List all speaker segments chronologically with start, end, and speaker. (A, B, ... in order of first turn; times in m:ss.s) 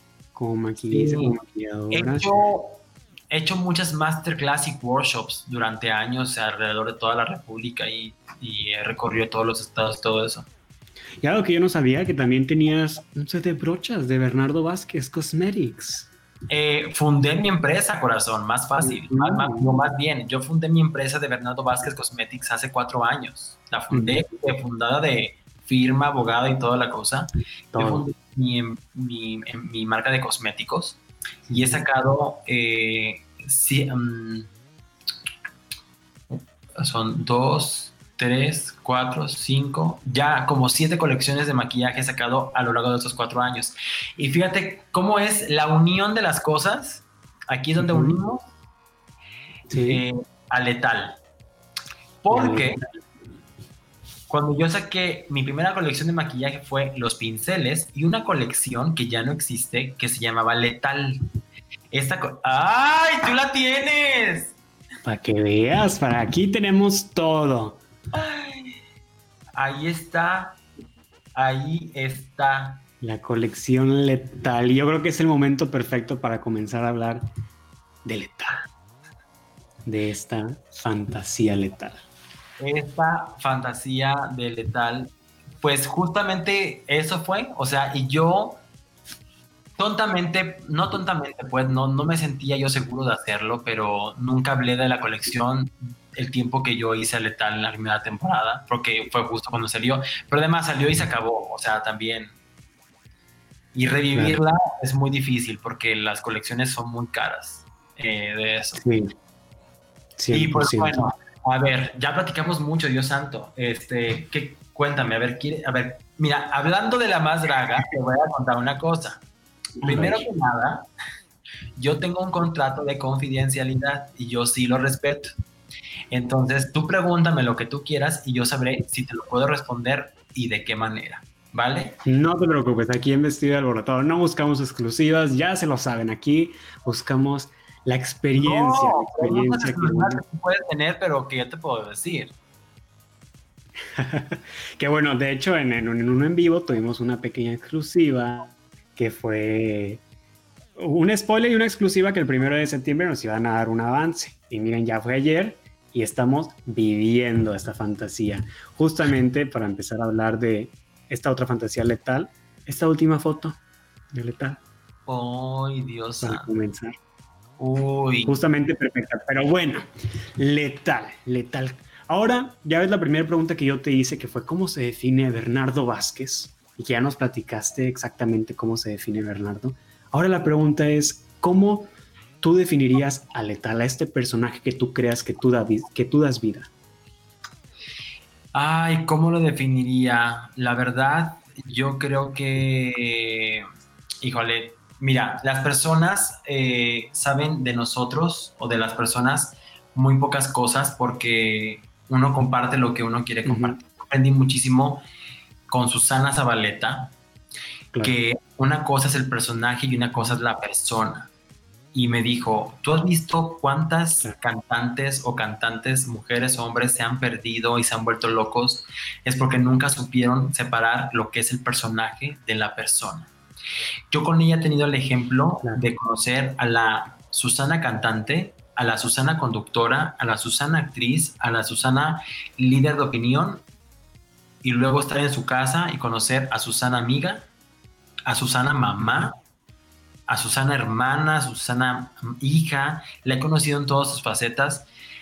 0:00.3-0:02.3 A
0:00.9-0:01.4 B
0:01.9-0:10.5 B
0:11.2-0:16.1 A
0:16.5-0:31.0 B
0:18.8-0:19.7 A
0:23.9-0:24.2 A
0:27.7-0:28.0 A
0:31.5-0:31.8 A
0:31.5-0:34.5 B
0:36.3-0:48.5 B
0:47.8-0:48.2 A
0:49.7-0:50.0 A
0:49.8-0:51.2 B
0:52.2-0:52.8 B
0:52.3-0:52.8 A
0:54.3-1:01.2 B
1:01.9-1:04.6 B
1:05.0-1:07.8 A
1:08.1-1:08.8 B
1:09.6-1:10.6 B
1:11.3-1:12.8 B
1:13.0-1:17.2 A
1:18.0-1:18.6 A
1:19.8-1:22.0 A
1:22.6-1:25.1 B
1:25.6-1:28.6 B
1:29.8-1:42.3 B
1:43.7-1:48.8 B
1:44.1-1:44.4 A
1:48.7-1:49.0 A
1:50.2-1:51.0 A
1:50.3-1:59.2 B
1:59.8-2:00.2 A
1:59.8-2:00.8 B
2:01.8-2:05.3 B
2:06.1-2:12.0 B
2:12.0-2:20.2 A
2:18.4-2:22.3 B
2:24.0-2:30.0 A
2:30.8-2:43.6 A
2:44.1-2:44.6 A
2:45.1-2:46.5 B
2:46.2-2:47.0 A
2:47.6-2:48.4 B
2:48.3-2:49.8 A
2:50.4-3:01.9 A
3:02.4-3:06.7 A
3:08.5-3:13.6 B
3:14.2-3:25.0 B
3:23.4-3:23.8 A
3:25.7-3:27.1 B
3:28.0-3:31.3 B
3:31.9-3:43.3 B
3:44.1-3:53.6 B
3:54.6-3:57.5 B
3:58.3-3:59.4 B
4:00.3-4:04.9 B